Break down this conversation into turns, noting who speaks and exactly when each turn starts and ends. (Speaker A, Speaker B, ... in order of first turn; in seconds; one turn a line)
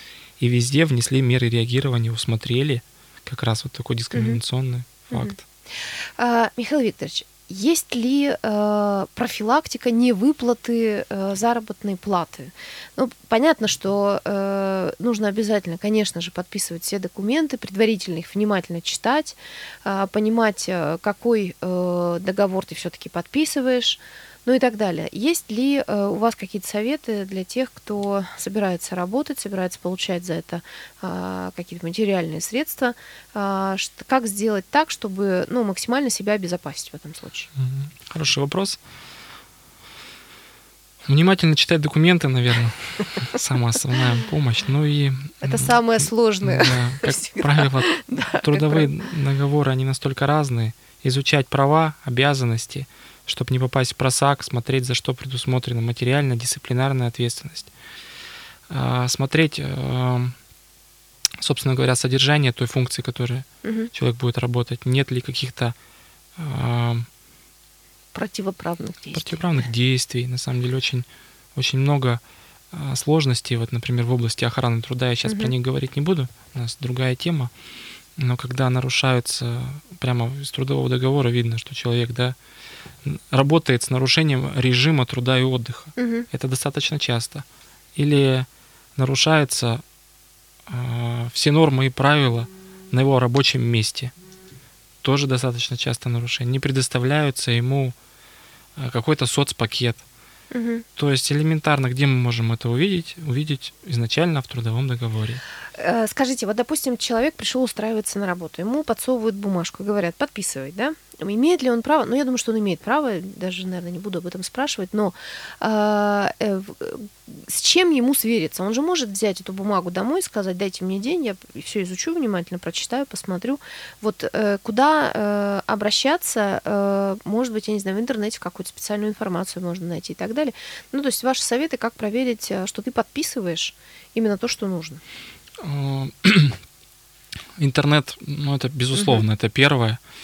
Speaker A: 0.4-5.4
Speaker B: 4.1-4.4
Speaker B: 5.1-37.5
Speaker A: 37.5-38.8
Speaker A: 41.0-57.7
Speaker B: 45.4-48.9
Speaker A: 58.7-60.4
Speaker A: 61.4-65.7
Speaker B: 63.6-63.9
Speaker A: 66.3-67.1
Speaker B: 68.1-69.4
Speaker A: 69.1-72.2
Speaker A: 72.7-77.5
Speaker B: 75.2-75.5
Speaker A: 78.2-82.3
Speaker A: 83.0-89.8
Speaker B: 86.0-86.3
Speaker A: 90.7-94.1
Speaker A: 95.0-97.9
Speaker A: 98.8-100.0
Speaker B: 100.5-100.8
Speaker A: 101.0-105.4
Speaker B: 105.8-135.0
Speaker A: 135.6-136.6
Speaker A: 137.6-140.0
Speaker B: 138.9-139.2